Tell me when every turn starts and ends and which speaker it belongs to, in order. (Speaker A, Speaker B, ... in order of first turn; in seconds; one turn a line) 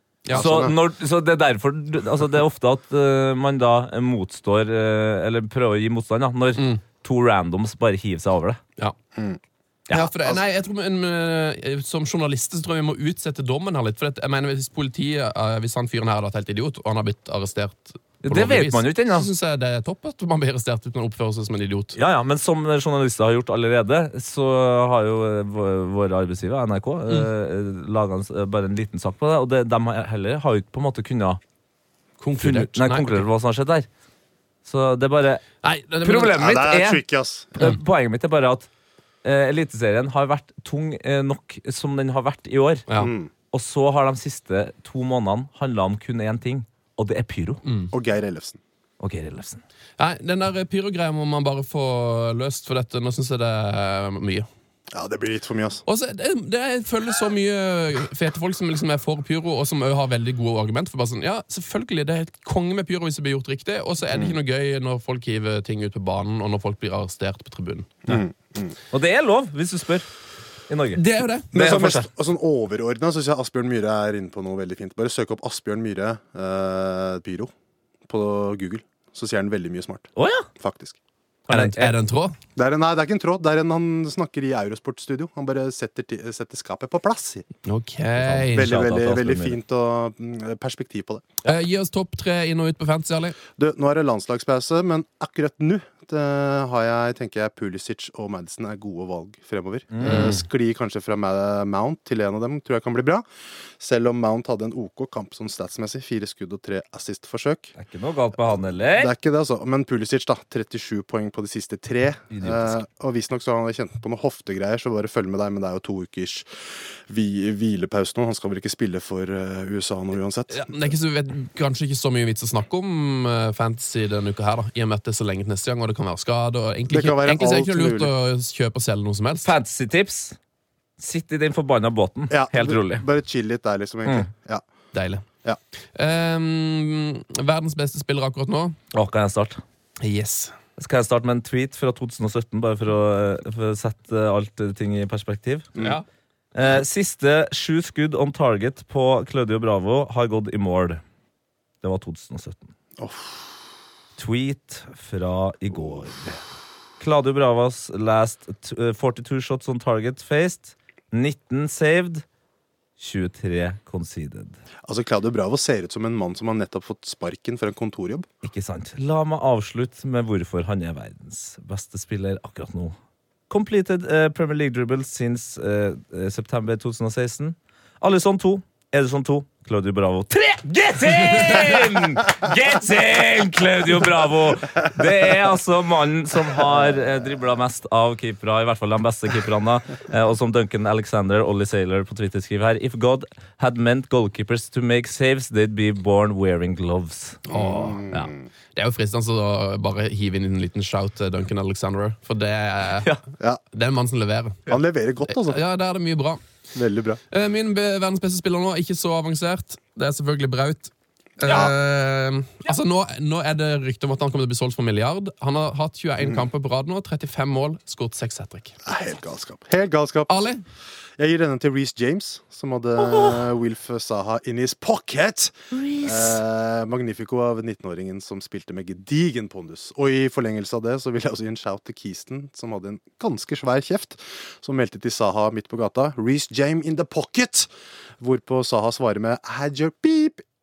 Speaker A: 0.2-0.5
Speaker B: 0.3-0.8
Speaker C: 0.3-8.6
Speaker A: 6.5-6.8
Speaker A: 9.9-21.9
Speaker C: 18.2-19.3
Speaker C: 21.9-31.4
Speaker A: 32.2-33.3
Speaker C: 32.4-33.9
Speaker C: 34.6-35.4
Speaker A: 35.6-36.4
Speaker C: 36.0-38.7
Speaker B: 36.3-37.5
Speaker C: 39.2-42.9
Speaker B: 43.0-43.3
Speaker C: 43.5-47.6
Speaker A: 47.6-47.9
Speaker B: 47.9-48.6
Speaker C: 49.0-49.6
Speaker A: 50.0-54.5
Speaker B: 54.9-55.8
Speaker A: 55.9-68.2
Speaker B: 68.1-68.8
Speaker C: 68.9-70.1
Speaker C: 70.7-71.0
Speaker A: 70.9-71.8
Speaker B: 71.5-77.5
Speaker C: 71.5-72.1
Speaker B: 78.1-81.0
Speaker C: 80.2-80.5
Speaker A: 81.5-82.3
Speaker C: 81.5-81.9
Speaker B: 82.5-87.4
Speaker A: 87.6-88.7
Speaker C: 88.2-89.6
Speaker B: 88.5-91.4
Speaker A: 91.4-93.3
Speaker B: 93.6-103.2
Speaker C: 99.9-100.4
Speaker A: 100.0-100.3
Speaker B: 103.8-107.7
Speaker C: 107.8-109.1
Speaker B: 108.5-116.5
Speaker C: 112.3-112.8
Speaker B: 117.1-120.9
Speaker A: 120.5-129.5
Speaker B: 126.9-128.1
Speaker C: 129.4-130.4
Speaker C: 131.0-133.0
Speaker B: 132.3-134.6
Speaker A: 134.9-135.2
Speaker A: 135.9-138.8
Speaker C: 138.9-139.6
Speaker A: 140.0-140.5
Speaker C: 140.8-145.7
Speaker A: 145.8-146.0
Speaker C: 146.5-151.0
Speaker C: 151.8-152.7
Speaker B: 153.0-153.4
Speaker C: 154.2-156.4
Speaker C: 157.0-162.2
Speaker C: 163.0-164.6
Speaker B: 164.8-168.2
Speaker C: 168.4-172.9
Speaker C: 173.5-197.4
Speaker A: 197.5-198.0
Speaker B: 197.5-198.5
Speaker A: 198.7-203.1
Speaker C: 202.9-203.2
Speaker A: 203.7-206.4
Speaker B: 204.7-205.6
Speaker B: 206.7-207.2
Speaker A: 207.3-218.7
Speaker C: 211.4-211.7
Speaker B: 216.2-216.5
Speaker B: 218.8-220.3
Speaker A: 220.3-220.6
Speaker B: 221.2-237.7
Speaker C: 223.0-223.5
Speaker C: 225.7-226.4
Speaker B: 238.2-240.4